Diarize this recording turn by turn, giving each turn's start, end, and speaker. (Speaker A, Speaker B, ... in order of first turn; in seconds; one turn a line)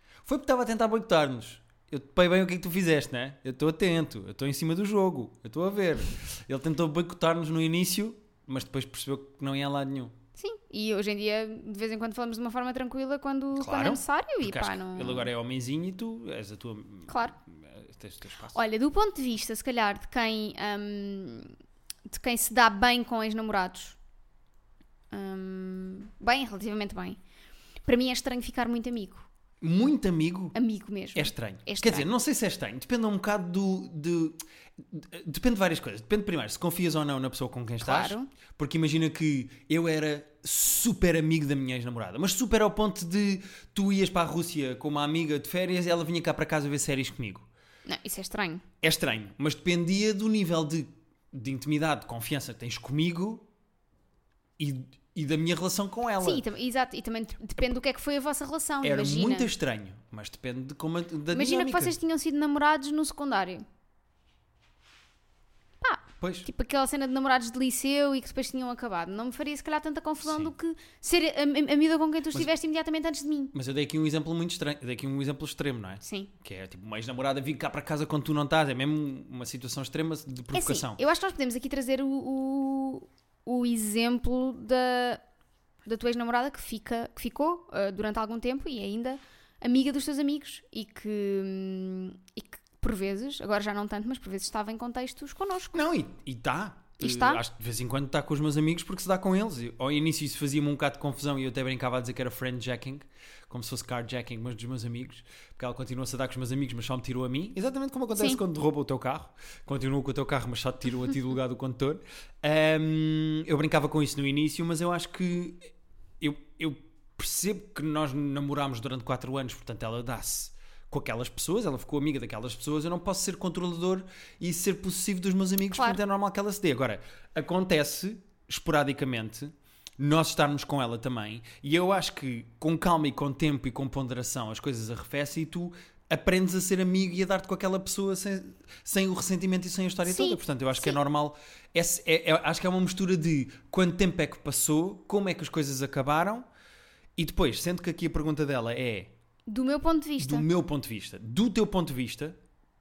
Speaker A: 0.2-10.1
Speaker B: 10.4-15.3
Speaker A: 13.6-18.6
Speaker B: 17.1-17.4
Speaker B: 18.5-21.6
Speaker B: 22.1-24.0
Speaker B: 25.1-27.2
Speaker B: 27.9-29.3
Speaker A: 29.6-30.6
Speaker B: 30.5-32.1
Speaker A: 31.1-47.5
Speaker B: 37.8-38.3
Speaker B: 47.9-48.6
Speaker A: 48.8-53.5
Speaker A: 54.6-56.4
Speaker B: 56.2-59.5
Speaker A: 58.8-62.0
Speaker B: 61.3-63.6
Speaker B: 65.8-73.5
Speaker A: 66.2-66.5
Speaker A: 70.2-70.5
Speaker A: 73.5-81.0
Speaker B: 76.0-76.3
Speaker B: 80.5-85.2
Speaker B: 85.9-95.8
Speaker A: 95.7-146.5
Speaker B: 97.0-97.4
Speaker B: 108.2-108.4
Speaker B: 125.7-126.0
Speaker B: 140.1-141.0
Speaker A: 147.2-149.1
Speaker B: 149.5-150.5
Speaker A: 150.2-152.4